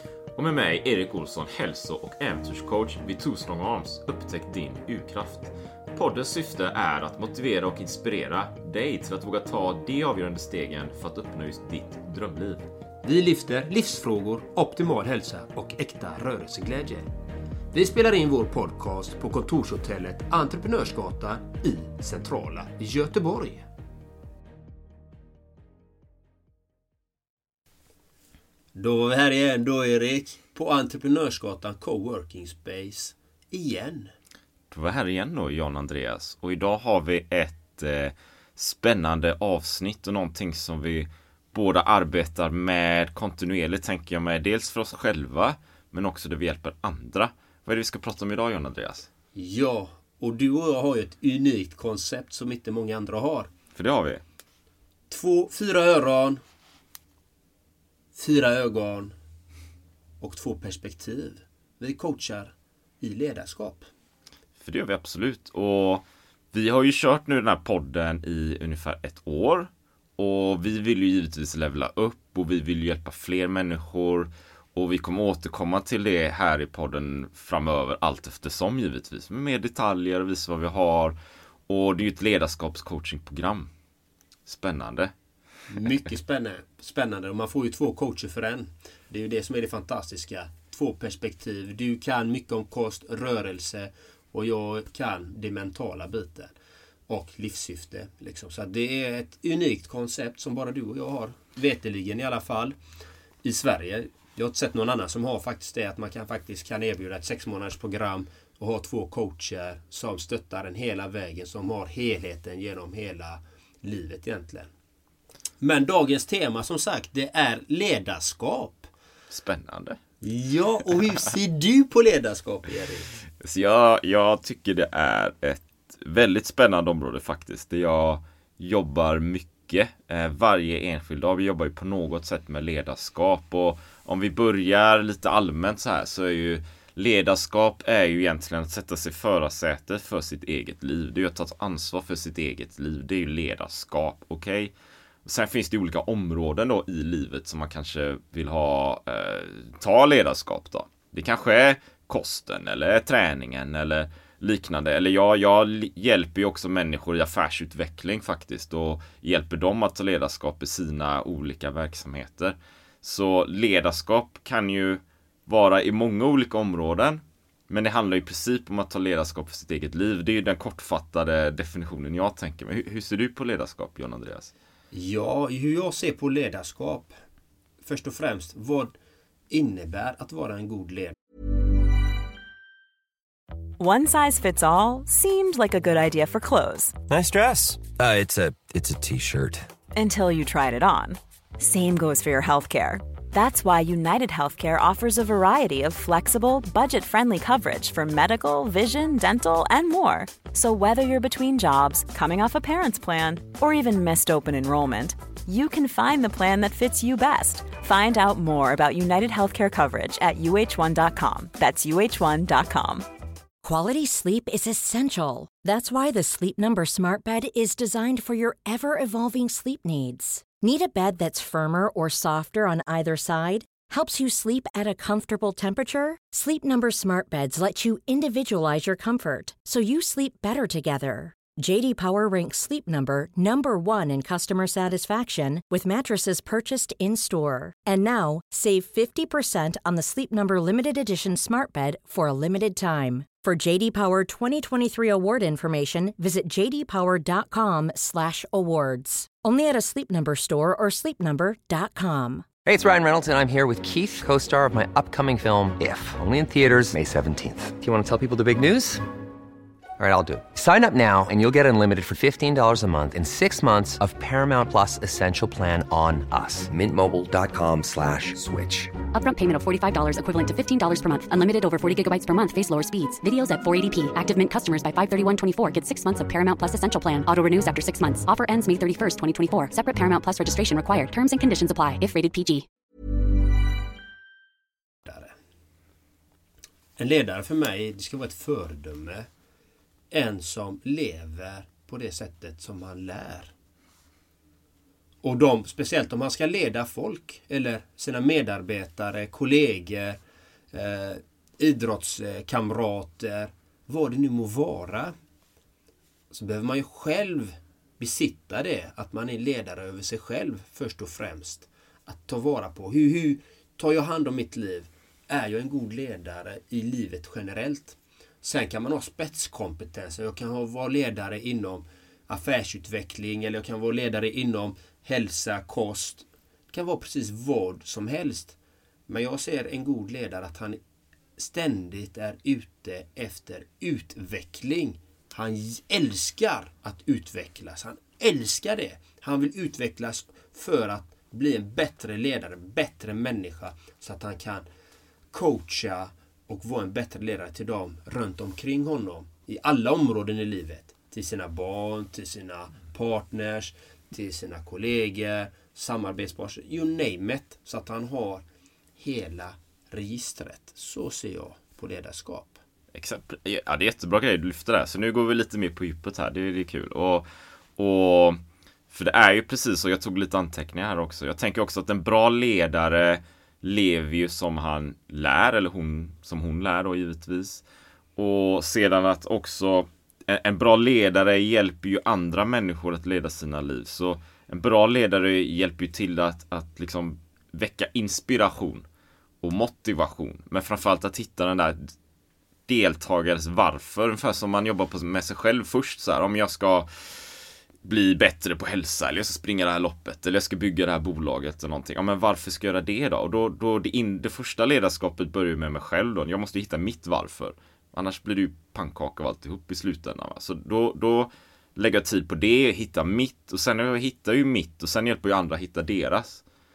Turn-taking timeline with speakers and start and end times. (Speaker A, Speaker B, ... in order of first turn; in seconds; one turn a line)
Speaker A: 0.3-12.7
Speaker B: 13.0-17.1
Speaker B: 17.7-23.6
Speaker B: 28.7-34.1
Speaker A: 34.7-49.1
Speaker B: 49.3-53.5
Speaker A: 53.7-54.2
Speaker B: 55.1-56.4
Speaker B: 58.1-59.1
Speaker B: 60.2-63.9
Speaker A: 64.6-81.2
Speaker A: 81.7-83.7
Speaker A: 84.5-85.1
Speaker B: 85.7-96.5
Speaker B: 97.1-102.8
Speaker B: 103.4-114.7
Speaker B: 115.6-118.9
Speaker A: 119.3-120.0
Speaker B: 120.2-123.1
Speaker A: 123.4-144.7
Speaker A: 145.2-174.5
Speaker B: 174.9-177.1
Speaker B: 177.8-178.9
Speaker B: 179.5-181.1
Speaker C: 183.8-187.0
Speaker D: 187.1-189.7
Speaker C: 189.9-213.1
Speaker E: 213.6-252.4
Speaker F: 252.7-259.0
Speaker D: 257.0-257.2
Speaker F: 260.0-268.9
Speaker D: 266.8-268.1
Speaker G: 269.1-282.6
Speaker B: 285.1-285.3
Speaker B: 287.0-289.3
Speaker B: 290.1-293.5
Speaker B: 295.2-300.2
Speaker B: 300.7-305.1
Speaker B: 306.3-328.6
Speaker B: 329.1-330.8
Speaker B: 331.4-344.6
Speaker B: 345.3-358.4
Speaker B: 359.0-362.6
Speaker A: 362.9-377.6
Speaker A: 378.2-388.8
Speaker A: 389.4-391.9
Speaker A: 392.7-416.4